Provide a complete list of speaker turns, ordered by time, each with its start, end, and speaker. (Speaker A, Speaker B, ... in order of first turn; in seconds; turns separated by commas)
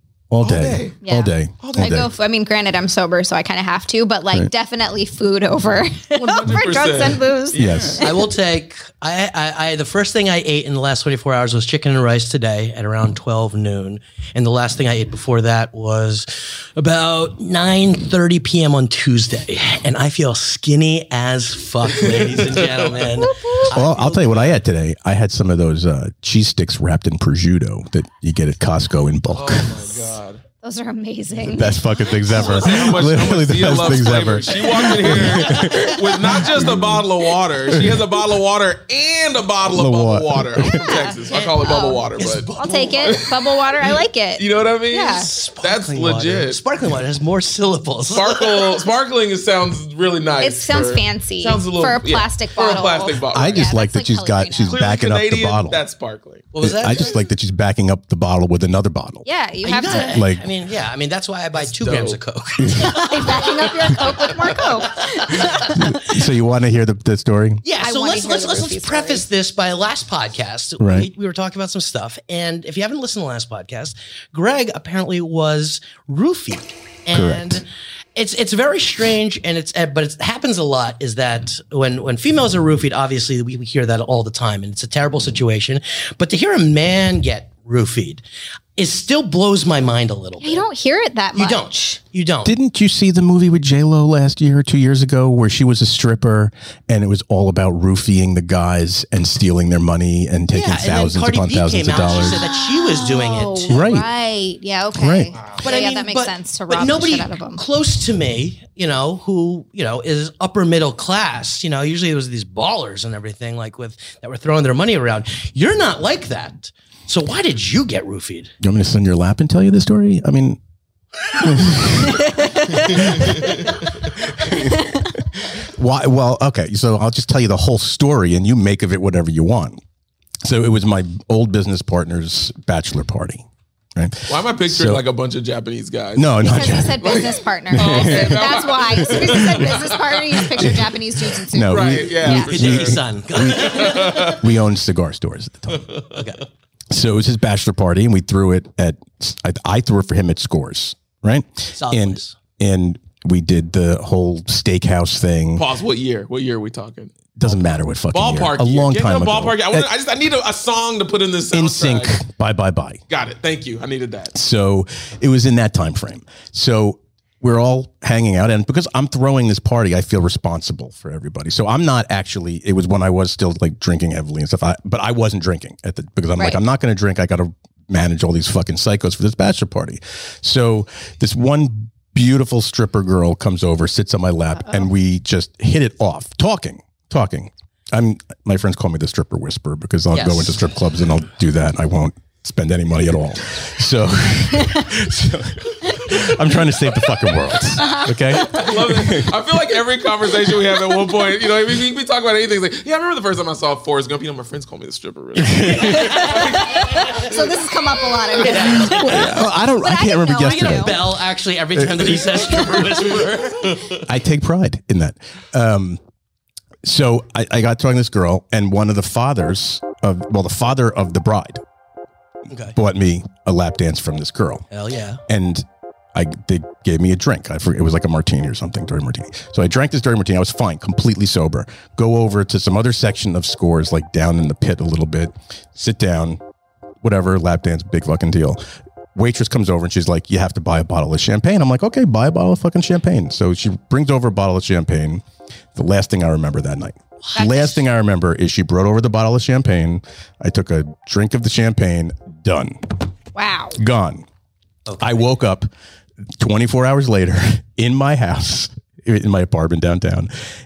Speaker A: 0.3-2.1, Speaker B: 0.4-1.0, Speaker C: 1.0-8.0, Speaker B: 1.6-2.1, Speaker B: 6.2-8.1, Speaker A: 7.5-8.0, Speaker D: 8.0-24.6, Speaker B: 22.0-23.1, Speaker C: 23.2-23.6, Speaker A: 23.7-29.9, Speaker B: 29.3-30.4, Speaker C: 30.6-32.7, Speaker A: 31.4-37.1, Speaker B: 32.3-46.6, Speaker A: 37.7-38.1, Speaker A: 39.6-40.9, Speaker C: 40.6-42.1, Speaker D: 42.2-43.2, Speaker C: 42.6-45.3, Speaker D: 45.1-48.8, Speaker B: 48.1-53.7, Speaker C: 50.4-54.8, Speaker A: 53.3-55.8, Speaker B: 54.7-56.5, Speaker D: 56.5-57.1, Speaker A: 56.6-59.2, Speaker C: 59.2-60.2, Speaker D: 59.6-65.8, Speaker A: 59.9-60.5, Speaker B: 61.6-62.2, Speaker A: 62.6-63.0, Speaker C: 62.7-66.2, Speaker A: 65.8-67.6, Speaker D: 67.6-88.2, Speaker C: 67.8-69.2, Speaker A: 70.8-71.1, Speaker A: 77.1-77.6, Speaker D: 88.8-90.7, Speaker C: 90.4-92.0, Speaker D: 91.3-92.5, Speaker A: 92.5-102.5, Speaker D: 100.5-103.9, Speaker C: 102.2-107.6, Speaker A: 103.7-104.1, Speaker A: 105.0-105.3, Speaker B: 105.4-105.6, Speaker D: 105.6-118.5, Speaker A: 118.6-120.6, Speaker A: 121.3-129.8, Speaker C: 122.0-123.0, Speaker A: 130.4-133.4, Speaker A: 134.0-135.0, Speaker B: 134.3-140.2, Speaker A: 136.2-139.8, Speaker C: 136.4-141.9, Speaker A: 140.5-145.9, Speaker B: 141.7-144.5, Speaker D: 142.2-144.4, Speaker D: 146.1-146.4, Speaker A: 146.9-155.7, Speaker D: 151.8-152.3, Speaker B: 155.6-157.6, Speaker A: 157.4-159.9, Speaker B: 158.1-162.2, Speaker A: 161.5-163.0, Speaker B: 163.1-164.3, Speaker A: 164.3-199.4, Speaker D: 190.1-190.7, Speaker C: 197.8-198.7, Speaker B: 198.4-207.5, Speaker A: 205.4-206.4, Speaker C: 205.8-210.9, Speaker D: 208.3-209.4, Speaker A: 208.5-211.1, Speaker D: 210.5-214.0, Speaker A: 211.8-212.4, Speaker A: 214.0-216.0, Speaker A: 216.8-221.6, Speaker D: 222.5-222.8, Speaker A: 222.7-224.7, Speaker D: 224.7-225.2, Speaker A: 225.3-236.4, Speaker A: 237.0-238.6, Speaker A: 239.2-245.2, Speaker A: 245.8-252.9, Speaker C: 247.3-247.8, Speaker C: 253.3-253.8, Speaker A: 253.8-254.2, Speaker D: 254.9-255.2, Speaker A: 255.0-255.7, Speaker A: 256.4-260.3